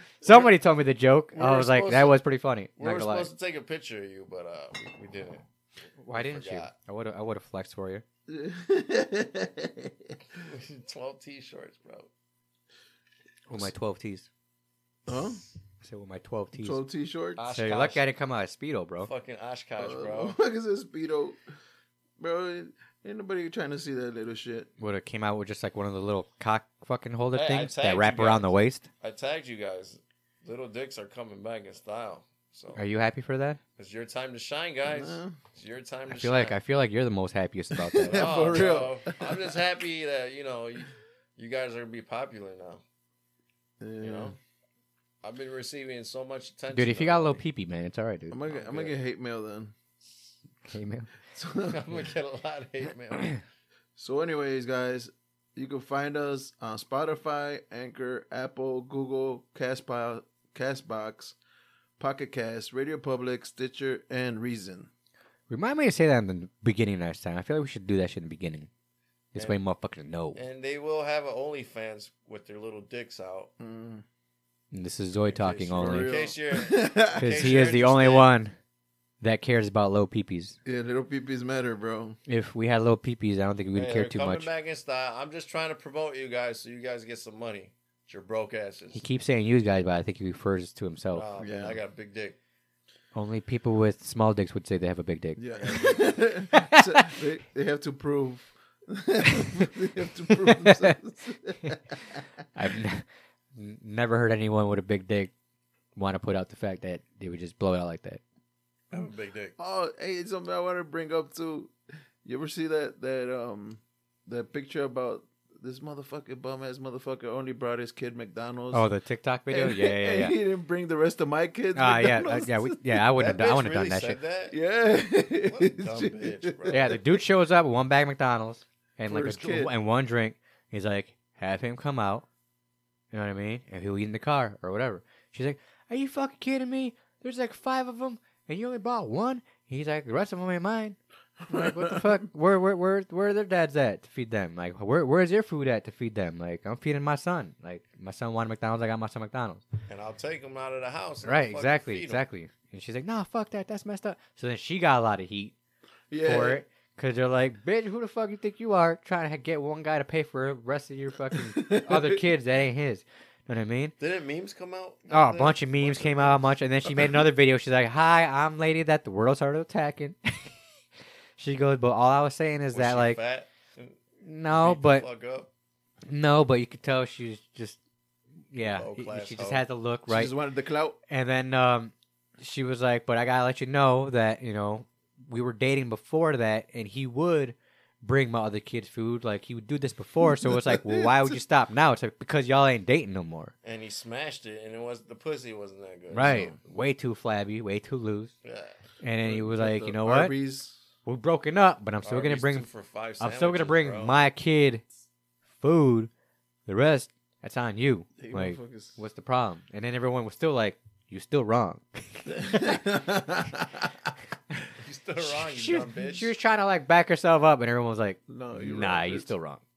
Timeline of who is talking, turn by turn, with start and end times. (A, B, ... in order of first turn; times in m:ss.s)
0:00.2-0:03.3 A
0:01.3-0:02.2 B
0:02.8-0:05.4 B
0:06.0-0:08.0 A
0:06.1-0:06.7 B
0:08.3-0:10.2 C
0:10.4-0:12.1 B
0:13.5-0:14.3 A
0:15.1-0:15.4 C
0:15.8-0:16.8 A
0:16.6-0:17.4 C
0:17.4-0:18.0 B
0:17.5-0:19.1 A
0:19.0-0:20.4 B
0:19.8-0:21.4 C
0:22.2-0:24.7 C
0:24.8-0:28.9 A
0:27.3-0:32.8 B
0:32.7-0:33.6 A
0:33.8-0:36.6 B
0:34.8-0:35.4 C
0:36.1-0:38.6 A
0:37.7-0:39.6 C
0:38.0-0:42.8 B
0:43.8-0:44.4 C
0:44.0-0:44.4 B
0:45.2-0:47.4 B
0:46.7-0:48.4 A
0:48.3-0:49.7 C
0:48.5-0:49.0 B
0:50.6-0:51.1 A
0:51.3-0:52.0 C
0:51.6-0:53.4 B
0:54.0-1:01.4 C
1:02.0-1:04.9 C
1:05.5-1:08.7 A
1:09.3-1:10.4 A
1:10.3-1:13.5 B
1:13.6-1:14.0 C
1:14.7-1:16.1 A
1:15.3-1:18.3 B
1:15.7-1:17.3 C
1:17.2-1:18.5 A
1:19.2-1:20.6 A
1:20.6-1:22.2 C
1:22.3-1:24.5 A
1:23.7-1:29.0 B
1:28.9-1:31.2 A
1:31.1-1:32.4 B
1:31.4-1:31.8 C
1:33.1-1:35.4 A
1:35.4-1:42.2 C
1:35.5-1:36.2 B
1:36.5-1:37.1 A
1:40.3-1:41.0 A
1:42.5-1:45.3 A
1:46.0-1:48.2 A
1:48.9-1:49.5 B
1:49.6-1:58.9 C
1:58.7-2:00.4 A
1:59.5-2:02.9 C
2:01.7-2:04.2 A
2:03.1-2:04.6 B
2:04.5-2:07.0 C
2:05.4-2:06.9 B
2:06.7-2:12.2 A
2:09.1-2:09.7 C
2:13.1-2:21.0 A
2:21.4-2:22.2 C
2:21.5-2:29.6 A
2:29.9-2:32.2 B
2:31.2-2:35.5 A
2:36.1-2:36.6 C
2:36.2-2:43.9 A
2:41.3-2:42.2 C
2:44.0-2:46.5 B
2:45.1-2:50.5 A
2:51.4-2:53.2 A
2:52.7-2:54.0 B
2:54.2-2:55.1 A
2:54.5-2:55.5 B
2:56.1-2:57.8 A
2:58.5-3:00.3 A
2:58.6-2:59.6 B
3:00.1-3:01.0 C
3:01.1-3:13.5 A
3:10.3-3:11.4 C
3:13.6-3:16.6 B
3:16.1-3:18.3 A
3:18.4-3:18.8 B
3:19.0-3:20.3 A
3:19.2-3:20.8 C
3:21.0-3:22.6 A
3:22.0-3:24.2 B
3:23.2-3:24.8 A
3:25.6-3:26.1 A
3:26.6-3:32.8 A
3:28.2-3:29.0 C
3:32.3-3:34.1 C
3:34.8-3:36.3 B
3:35.2-3:39.6 A
3:38.3-3:39.3 C